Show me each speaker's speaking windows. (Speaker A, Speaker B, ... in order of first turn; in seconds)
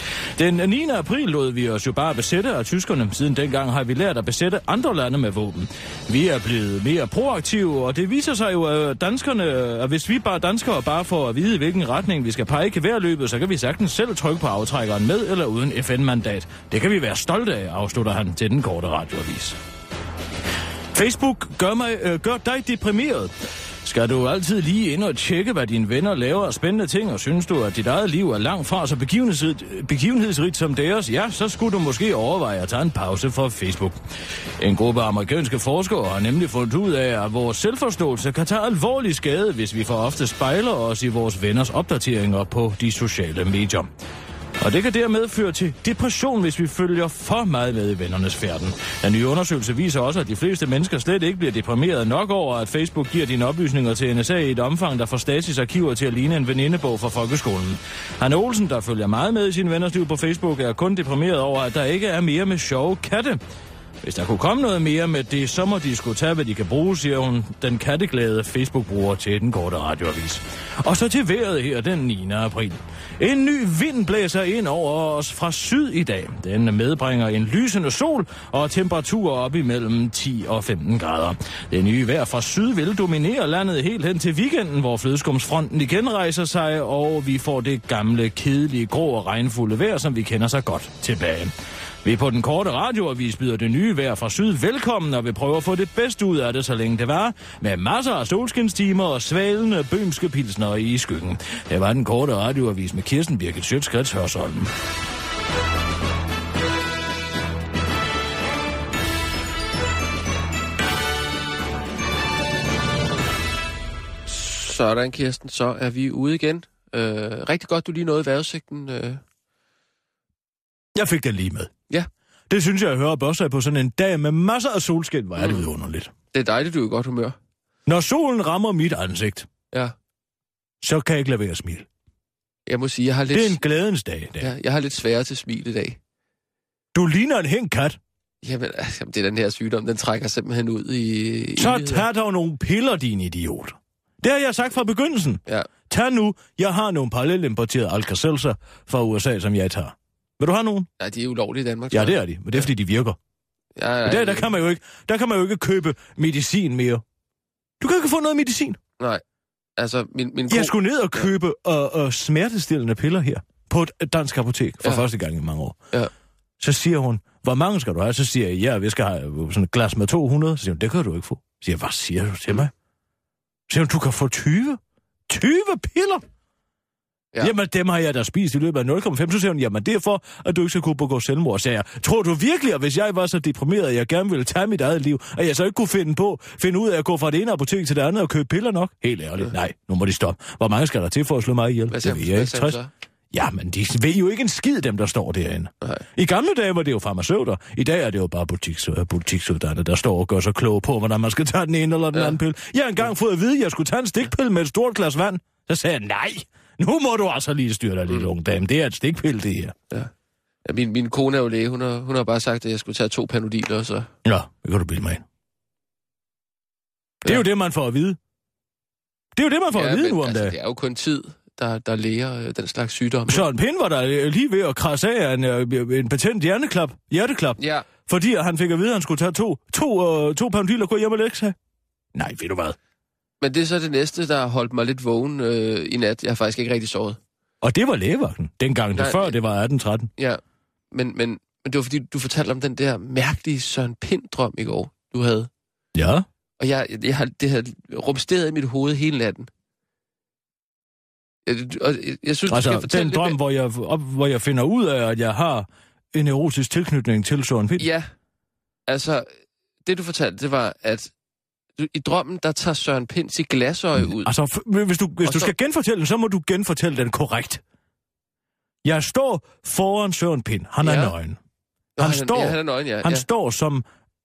Speaker A: 0.3-19.6, 20.9-23.3, 23.8-34.0, 34.6-43.9, 44.6-63.4, 64.0-91.5, 92.0-104.7, 121.0-121.7, 122.5-126.1, 127.9-129.5, 130.8-131.9, 133.3-134.5, 136.9-138.0, 141.6-150.9, 151.9-153.2, 154.1-157.0, 157.8-158.8, 160.5-165.8, 166.6-172.7, 173.7-176.2, 177.4-192.8, 193.3-209.8, 214.2-215.2, 217.2-218.2, 219.3-220.6, 223.3-231.6, 232.1-232.8, 237.6-240.1, 245.9-246.2, 252.5-257.9, 264.0-267.6, 268.8-271.4, 272.0-273.8
Speaker B: 114.3-119.2, 125.4-125.6, 126.3-127.4, 132.7-133.6, 134.4-136.0, 138.4-142.1, 151.0-152.7, 153.8-154.5, 159.8-161.3, 191.9-192.9, 210.6-214.1, 219.7-223.5, 227.6-227.9, 233.4-237.2, 238.9-239.4, 240.9-245.5, 246.6-249.5, 251.4-253.4, 257.8-258.1, 258.9-259.3, 259.9-261.1, 261.8-264.3, 265.2-265.5, 270.8-271.1, 272.0-273.2